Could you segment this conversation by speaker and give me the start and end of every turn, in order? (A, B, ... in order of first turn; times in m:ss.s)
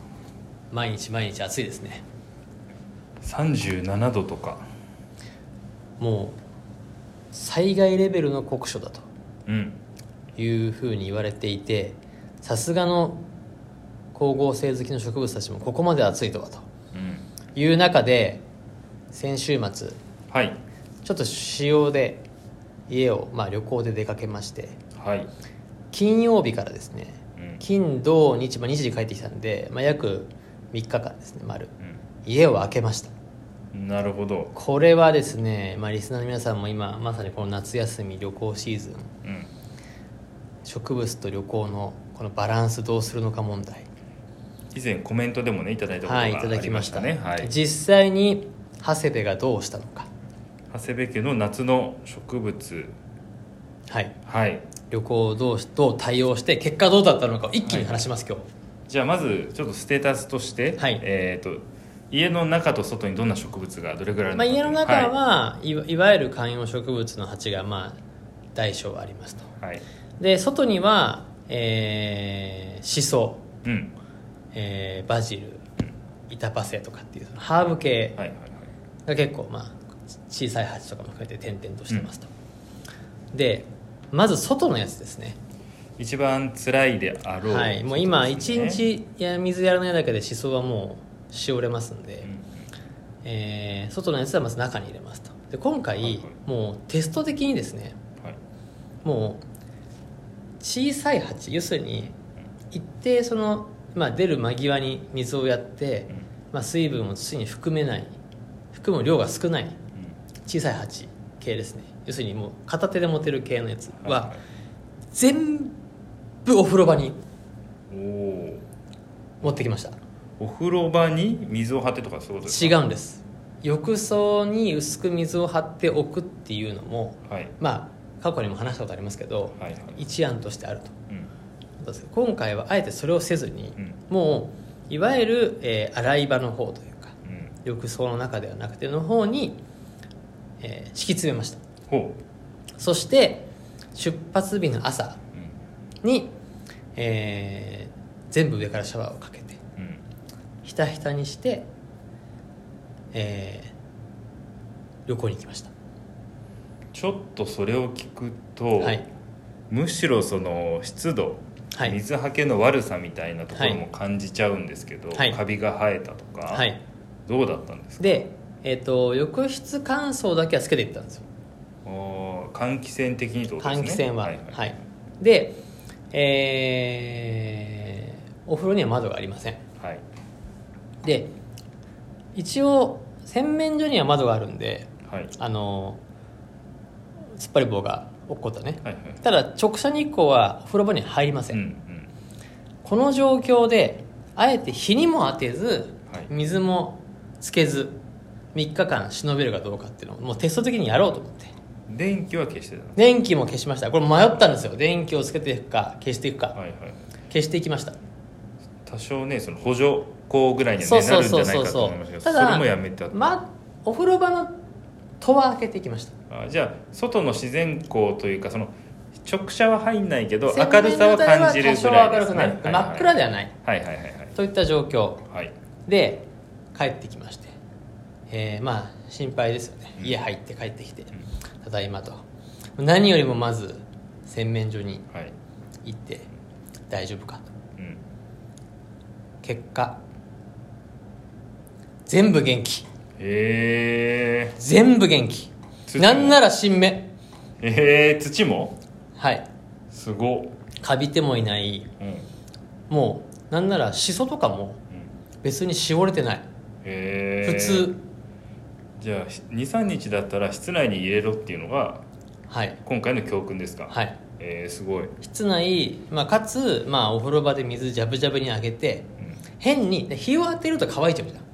0:00.7-0:02.0 A
0:03.2-0:04.7 B
0:06.0-0:06.4 A
0:07.3-0:09.0 A
0:09.5-0:09.8 B
0:10.4-0:13.2 A
0:14.1-0:16.7 A
0:16.9-0:17.3 B
0:17.5-0:18.4 A
0:19.1-0:20.0 A
0:20.3-0:20.6 B
0:21.0-0:22.2 A
0:22.9-0:24.8 A
0:25.0-0:25.3 B
0:25.9-0:31.7 A
0:27.4-0:27.6 B
0:32.2-0:33.1 A
0:33.7-0:34.5 B
0:34.5-0:39.1 A
0:39.2-0:39.5 B
0:40.6-0:43.8 A
0:44.7-0:47.5 B
0:46.0-0:50.1 A
0:50.7-0:52.9 B
0:53.9-0:54.1 A
0:54.2-0:54.7 B
0:54.9-0:58.4 A
0:57.6-0:58.1 B
0:58.9-1:05.1 B
1:04.3-1:08.0 A
1:08.5-1:09.5 A
1:10.2-1:13.4 A
1:13.6-1:13.9 B
1:14.5-1:15.6 A
1:16.3-1:18.2 A
1:18.2-1:18.7 B
1:19.0-1:22.3 A
1:23.3-1:25.4 A
1:26.0-1:28.8 B
1:27.4-1:32.3 A
1:32.2-1:32.6 B
1:33.2-1:38.0 A
1:36.0-1:36.3 B
1:39.0-1:39.4 A
1:40.6-1:42.1 A
1:42.7-1:48.1 A
1:48.7-1:49.8 A
1:50.4-1:54.4 A
1:54.0-1:54.4 B
1:55.1-1:55.8 A
1:56.4-1:57.2 A
1:57.9-1:58.6 B
1:59.4-2:00.0 A
2:00.4-2:02.8 B
2:02.4-2:10.9 A
2:07.3-2:07.5 B
2:09.6-2:10.0 B
2:11.8-2:19.6 A
2:17.2-2:17.5 B
2:20.6-2:21.6 A
2:21.9-2:22.2 B
2:22.8-2:25.2 A
2:26.0-2:26.3 A
2:27.0-2:29.6 A
2:29.8-2:30.0 B
2:30.6-2:31.7 A
2:33.1-2:33.7 A
2:35.1-2:35.7 A
2:36.9-2:39.0 B
2:39.7-2:46.7 B
2:43.5-2:43.8 A
2:46.5-2:46.8 A
2:47.2-2:48.2 B
2:48.0-2:51.2 A
2:51.8-2:54.6 B
2:53.6-2:59.6 A
3:01.0-3:01.3 A
3:02.3-3:06.0 A
3:05.1-3:05.3 B
3:07.4-3:11.6 A
3:08.8-3:09.2 B
3:11.5-3:12.1 B
3:12.8-3:18.0 A
3:18.5-3:21.5 A
3:21.9-3:23.0 B
3:23.0-3:26.6 A
3:26.5-3:27.0 B
3:27.3-3:28.0 A
3:28.8-3:33.2 B
3:30.8-3:34.5 A
3:35.2-3:36.1 A
3:36.3-3:44.3 B
3:40.5-3:43.5 A
3:44.3-3:45.2 A
3:45.8-3:47.5 A
3:48.3-3:52.2 A
3:52.8-3:55.0 A
3:55.8-3:56.3 A
3:56.9-3:57.5 A
3:59.4-4:00.0 A
4:02.1-4:02.8 A
4:03.2-4:04.6 B
4:04.6-4:07.1 A
4:05.9-4:06.4 B
4:07.6-4:08.8 B
4:09.2-4:09.4 A
4:09.9-4:10.6 B
4:10.8-4:11.9 A
4:12.0-4:12.3 B
4:12.9-4:14.8 A
4:15.4-4:16.4 A
4:16.8-4:18.0 B
4:17.4-4:18.0 A
4:19.0-4:22.0 B
4:22.5-4:22.8 A
4:22.8-4:25.1 B
4:23.9-4:24.2 A
4:25.2-4:31.4 A